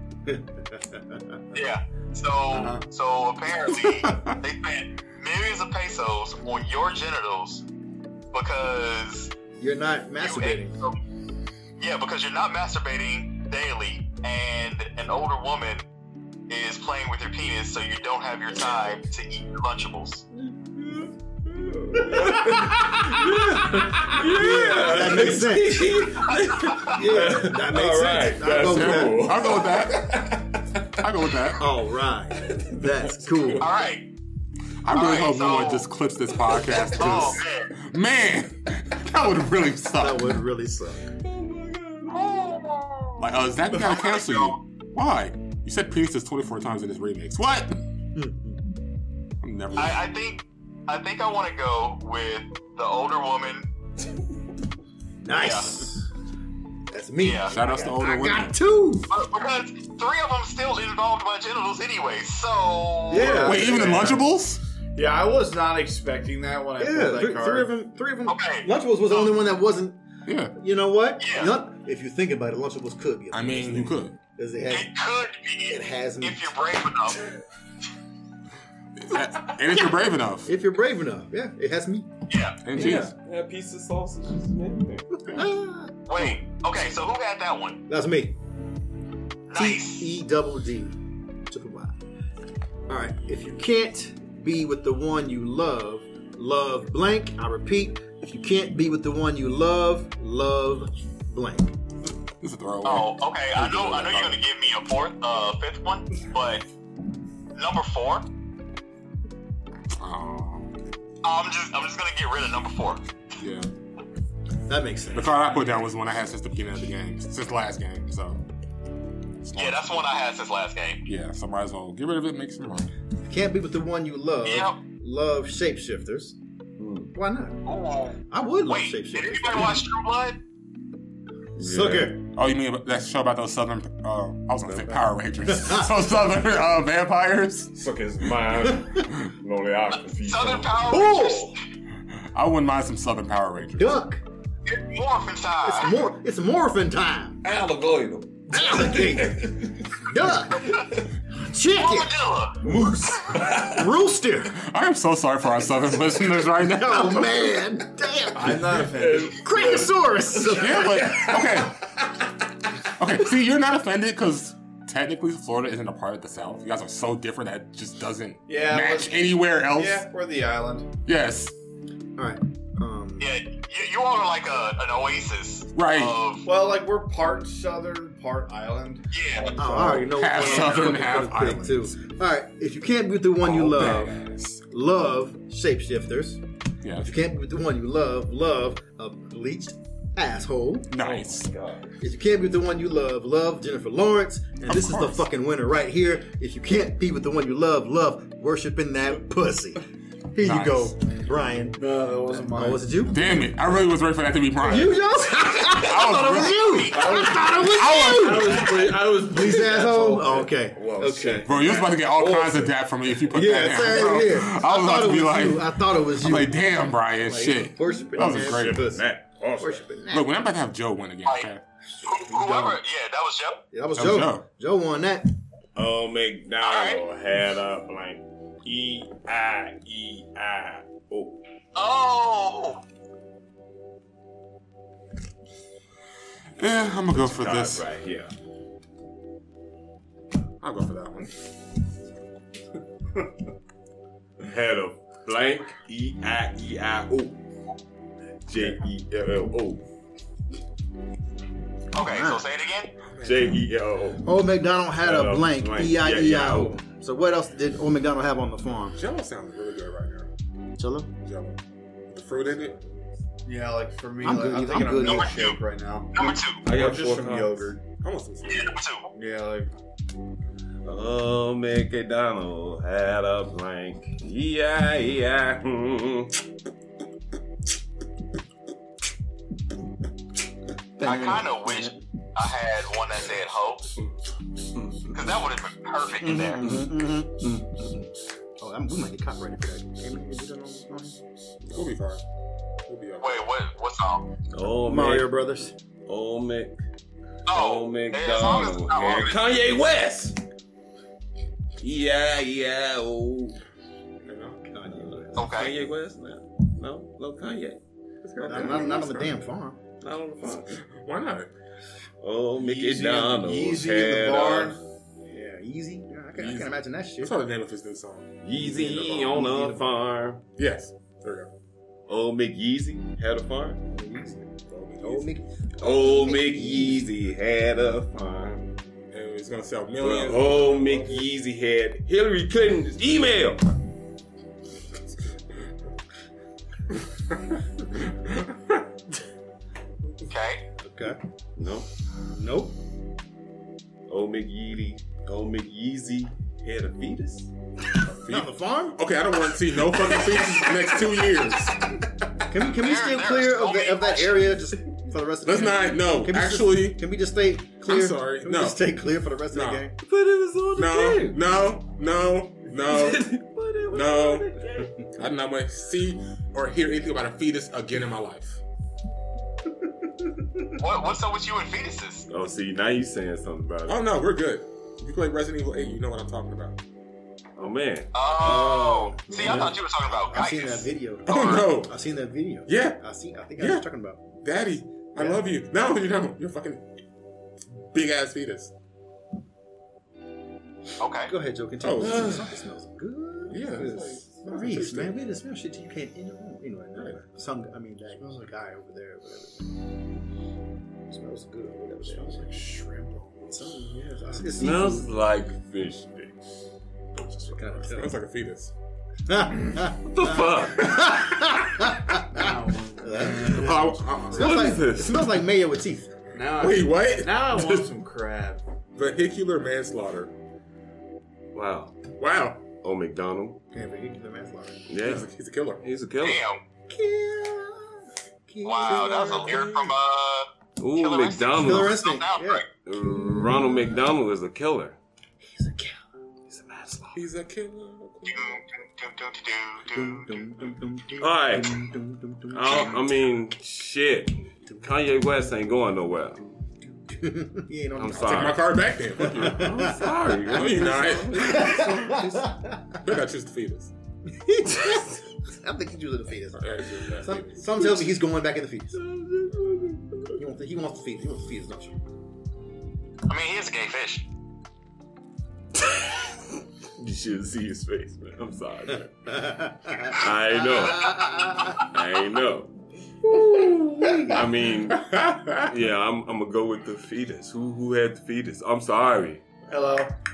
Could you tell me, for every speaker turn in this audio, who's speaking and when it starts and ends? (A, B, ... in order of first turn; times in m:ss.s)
0:00.3-0:01.4 A
0:01.5-0:07.6 B
0:02.5-0:02.8 C
0:03.8-0:04.4 D
0:08.3-0:09.3 B
0:09.6-0:10.8 A
0:10.2-0:11.0 B
0:11.8-0:15.8 B
0:16.5-0:20.2 B
0:20.6-0:30.6 E
0:24.2-0:26.2 A
0:26.3-0:27.1 B
0:26.8-0:29.5 A
0:28.6-0:30.3 D
0:30.9-0:31.7 D
0:31.6-0:33.7 A
0:33.6-0:34.1 B
0:34.8-0:40.4 D
0:34.9-0:35.9 B
0:37.0-0:37.7 B
0:40.0-0:41.1 A
0:41.2-0:42.9 E
0:43.2-0:47.8 D
0:43.7-0:44.6 B
0:48.1-0:48.6 A
0:49.4-0:50.0 D
0:49.8-0:53.6 B
0:55.2-0:56.1 A
0:55.3-0:55.8 B
0:56.9-0:59.1 A
0:57.2-0:57.6 B
0:57.5-0:58.6 D
0:59.1-1:03.5 B
1:03.1-1:04.2 C
1:03.1-1:04.2 A
1:03.2-1:04.6 D
1:04.9-1:07.7 C
1:06.8-1:10.0 A
1:08.3-1:09.3 B
1:10.3-1:10.6 D
1:10.6-1:14.9 A
1:11.2-1:11.5 B
1:13.3-1:14.2 D
1:14.7-1:17.2 B
1:15.7-1:16.6 A
1:19.0-1:20.5 D
1:20.4-1:22.1 A
1:22.3-1:22.6 B
1:22.6-1:23.1 D
1:22.7-1:25.3 E
1:22.8-1:23.0 A
1:25.3-1:26.4 A
1:26.1-1:27.8 B
1:27.9-1:28.4 A
1:29.5-1:30.1 B
1:29.5-1:31.0 A
1:31.5-1:32.0 A
1:32.9-1:41.8 A
1:42.4-1:44.2 D
1:42.8-1:46.6 B
1:47.6-1:48.3 B
1:50.0-1:50.8 D
1:51.2-1:53.1 B
1:53.4-1:53.7 D
1:54.7-1:55.4 A
1:55.1-1:58.4 D
1:59.4-1:59.9 D
1:59.6-2:01.0 B
2:01.1-2:02.9 D
2:03.3-2:06.4 A
2:04.4-2:04.8 B
2:06.8-2:07.1 E
2:07.1-2:07.6 A
2:07.6-2:10.4 B
2:08.3-2:09.9 A
2:11.6-2:12.2 A
2:11.6-2:12.2 E
2:12.3-2:17.7 D
2:14.6-2:15.1 E
2:17.7-2:21.3 E
2:19.0-2:19.3 D
2:20.2-2:21.6 B
2:20.9-2:21.6 A
2:22.1-2:24.0 D
2:23.8-2:24.2 A
2:24.7-2:25.9 B
2:25.6-2:27.4 A
2:27.4-2:30.0 E
2:28.5-2:32.2 A
2:30.6-2:31.0 E
2:31.7-2:32.7 B
2:32.6-2:33.9 E
2:33.4-2:34.6 A
2:34.5-2:37.4 D
2:36.6-2:38.8 A
2:38.3-2:39.9 C
2:38.9-2:39.8 E
2:39.4-2:41.6 A
2:40.4-2:41.3 E
2:40.5-2:41.9 D
2:42.8-2:50.1 D
2:48.5-2:50.9 C
2:51.1-2:51.5 D
2:52.2-2:53.3 A
2:53.2-2:56.5 B
2:55.7-2:56.2 D
2:56.4-3:01.1 C
2:59.1-2:59.6 B
2:59.6-3:04.2 A
3:00.1-3:02.0 D
3:03.4-3:04.6 D
3:04.7-3:06.4 A
3:06.8-3:07.1 D
3:07.0-3:10.9 A
3:10.9-3:11.5 D
3:11.0-3:12.0 E
3:12.0-3:23.2 A
3:14.7-3:15.3 D
3:20.4-3:21.0 D
3:21.8-3:23.0 C
3:23.1-3:26.7 D
3:24.6-3:31.4 A
3:26.0-3:27.3 B
3:26.9-3:30.4 C
3:27.7-3:28.7 D
3:29.6-3:32.8 E
3:31.0-3:31.6 C
3:31.4-3:38.9 D
3:33.3-3:39.0 A
3:38.1-3:39.9 E
3:39.6-3:40.3 A
3:40.1-3:41.6 D
3:42.0-3:43.6 B
3:42.3-3:42.6 A
3:43.7-3:45.3 A
3:44.0-3:44.4 D
3:45.7-3:51.4 E
3:46.6-3:47.0 B
3:51.7-3:52.8 B
3:56.6-3:57.8 D
3:57.0-3:58.3 E
4:00.6-4:01.4 D
4:04.4-4:07.4 E
4:08.4-4:09.8 E
4:11.9-4:12.9 B
4:12.0-4:12.4 A
4:13.0-4:13.6 D
4:13.2-4:14.3 E
4:14.2-4:19.0 A
4:15.0-4:16.8 E
4:18.9-4:20.3 D
4:20.8-4:21.1 A
4:21.2-4:21.6 D
4:22.1-4:23.0 D
4:23.4-4:27.8 C
4:24.2-4:25.4 A
4:25.0-4:25.6 B
4:26.1-4:26.6 B
4:26.6-4:27.7 E
4:28.0-4:28.8 D
4:28.4-4:29.1 B
4:29.1-4:29.7 C
4:30.8-4:36.4 E
4:41.0-4:42.0 A
4:41.0-4:44.0 B
4:44.7-4:45.2 E
4:45.1-4:46.8 B
4:46.2-4:48.1 A
4:46.6-4:47.8 E
4:48.6-4:51.2 A
4:51.7-4:52.2 D
4:52.8-4:53.5 D
4:53.2-4:54.3 B
4:54.5-4:55.3 E
4:54.8-4:55.7 A
4:56.1-4:56.7 E
4:57.5-4:59.5 B
4:57.5-5:00.4 E
5:01.8-5:03.6 E
5:04.2-5:04.6 D
5:04.6-5:05.5 A
5:04.9-5:07.8 E
5:05.4-5:05.7 B
5:08.2-5:09.2 D
5:08.4-5:09.1 E
5:08.4-5:09.8 A
5:10.0-5:10.8 E
5:10.7-5:11.5 D
5:12.2-5:14.8 E
5:12.6-5:14.8 C
5:15.3-5:17.4 A
5:16.4-5:18.4 D
5:18.4-5:20.4 E
5:18.6-5:19.8 A
5:20.6-5:21.5 D
5:22.1-5:23.8 E
5:23.9-5:24.5 A
5:24.7-5:25.3 D
5:25.0-5:27.0 A
5:25.8-5:28.8 E
5:29.1-5:31.2 D
5:30.0-5:33.7 E
5:37.8-5:38.8 D
5:40.3-5:40.6 B
5:40.8-5:41.2 A
5:41.6-5:41.9 E
5:42.3-5:42.8 A
5:44.1-5:47.5 E
5:48.1-5:52.0 D
5:48.3-5:49.0 A
5:52.5-5:59.9 A
5:52.6-5:54.6 B
5:55.4-5:57.0 D
5:57.8-5:58.9 D
5:59.5-5:59.9 D
6:00.0-6:01.4 E
6:00.7-6:08.6 D
6:02.8-6:05.0 E
6:10.8-6:12.3 B
6:12.3-6:14.0 E
6:13.8-6:16.8 D
6:17.6-6:19.8 E
6:18.1-6:21.7 B
6:18.4-6:24.2 A
6:21.3-6:21.9 D
6:22.6-6:23.0 D
6:23.6-6:23.9 D
6:24.4-6:26.8 D
6:25.2-6:25.4 A
6:27.8-6:28.7 D
6:31.0-6:31.3 B
6:31.3-6:39.7 A
6:31.8-6:32.4 D
6:32.0-6:32.4 E
6:33.5-6:35.2 D
6:38.1-6:38.5 C
6:41.1-6:42.5 A
6:42.0-6:43.6 C
6:43.5-6:45.1 A
6:44.5-6:46.4 E
6:47.4-6:48.1 A
6:47.8-6:48.7 D
6:49.3-6:56.1 A
6:50.0-6:51.1 E
6:50.9-6:51.2 D
6:52.3-6:53.8 C
6:53.4-6:54.8 D
6:54.3-6:55.3 E
6:56.3-6:58.6 C
6:56.6-6:57.9 D
6:59.0-7:00.3 D
7:01.5-7:01.9 E
7:02.2-7:02.6 D
7:02.8-7:03.6 E
7:03.7-7:04.8 A
7:04.9-7:05.3 E
7:05.0-7:05.8 D
7:05.8-7:06.4 E
7:06.2-7:06.6 B
7:06.9-7:09.6 A
7:08.6-7:12.6 B
7:08.8-7:10.0 D
7:10.8-7:12.0 E
7:11.6-7:12.6 A
7:12.8-7:15.0 E
7:15.4-7:17.1 A
7:16.7-7:17.0 E
7:17.1-7:18.6 D
7:18.3-7:20.4 B
7:19.9-7:23.0 A
7:21.2-7:21.8 E
7:22.5-7:26.4 E
7:26.9-7:28.6 A
7:28.0-7:28.7 E
7:28.1-7:29.7 D
7:29.2-7:33.0 A
7:29.2-7:32.4 E
7:30.5-7:32.0 D
7:33.0-7:33.9 D
7:34.3-7:39.0 A
7:36.5-7:37.7 D
7:39.2-7:40.0 E
7:40.4-7:42.0 A
7:43.3-7:44.3 B
7:47.0-7:49.4 E
7:49.3-7:51.8 A
7:50.0-7:51.2 E
7:51.7-7:52.7 E
7:54.0-7:54.4 A
7:54.2-7:55.1 E
7:54.9-7:55.7 D
7:55.6-7:59.6 E
7:59.7-8:00.1 C